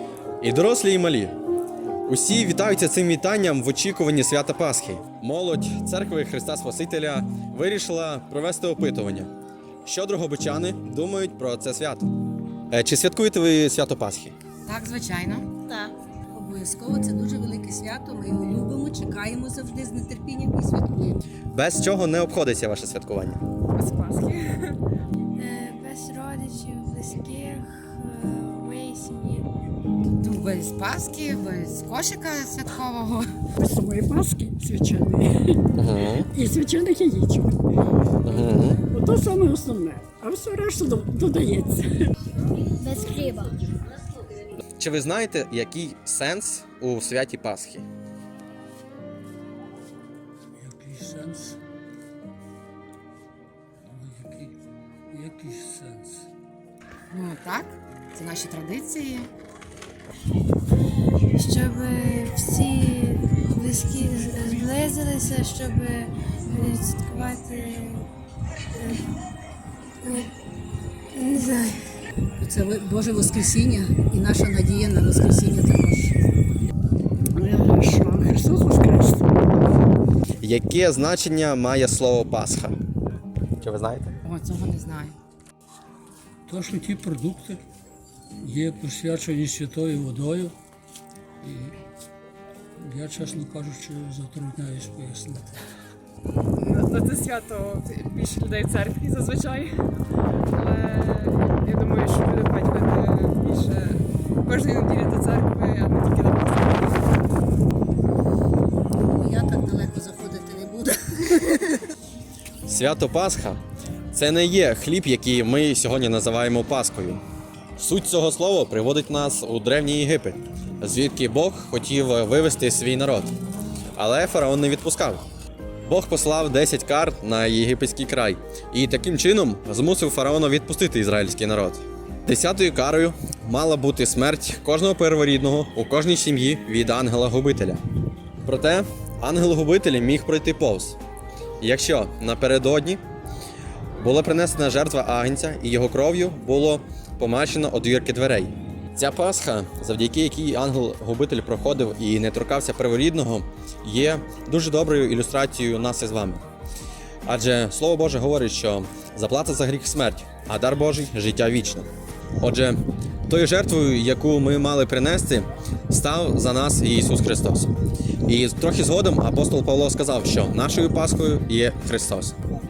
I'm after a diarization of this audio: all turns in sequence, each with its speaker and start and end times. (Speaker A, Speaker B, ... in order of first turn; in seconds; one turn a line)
Speaker A: 0.4-1.4
Speaker A: 2.1-9.3
Speaker A: 9.9-12.1
Speaker A: 12.7-14.3
Speaker B: 14.7-15.5
Speaker C: 16.3-21.2
Speaker A: 21.5-23.4
Speaker D: 23.8-24.8
Speaker E: 25.4-29.5
Speaker B: 30.2-33.4
Speaker F: 33.6-35.6
Speaker A: 35.8-36.3
Speaker F: 36.3-37.5
Speaker A: 38.2-38.8
Speaker F: 38.9-41.9
Speaker E: 42.8-43.5
Speaker A: 44.8-47.9
Speaker G: 50.6-51.6
Speaker G: 53.8-54.6
Speaker G: 55.1-56.3
Speaker B: 57.1-59.3
Speaker E: 61.3-68.1
Speaker E: 71.2-71.7
Speaker C: 72.4-76.1
Speaker F: 77.3-79.3
Speaker A: 80.4-82.7
Speaker A: 83.6-84.1
Speaker B: 84.2-85.2
Speaker G: 86.5-87.7
Speaker G: 88.4-90.5
Speaker G: 91.4-91.8
Speaker G: 92.8-95.5
Speaker D: 96.6-99.8
Speaker D: 100.5-107.0
Speaker C: 109.0-111.9
Speaker A: 112.7-113.6
Speaker A: 114.1-117.2
Speaker A: 117.8-123.3
Speaker A: 124.0-125.2
Speaker A: 125.9-137.8
Speaker A: 138.4-141.0
Speaker A: 141.6-143.0
Speaker A: 144.0-156.4
Speaker A: 157.3-161.9
Speaker A: 162.4-167.7
Speaker A: 168.2-172.3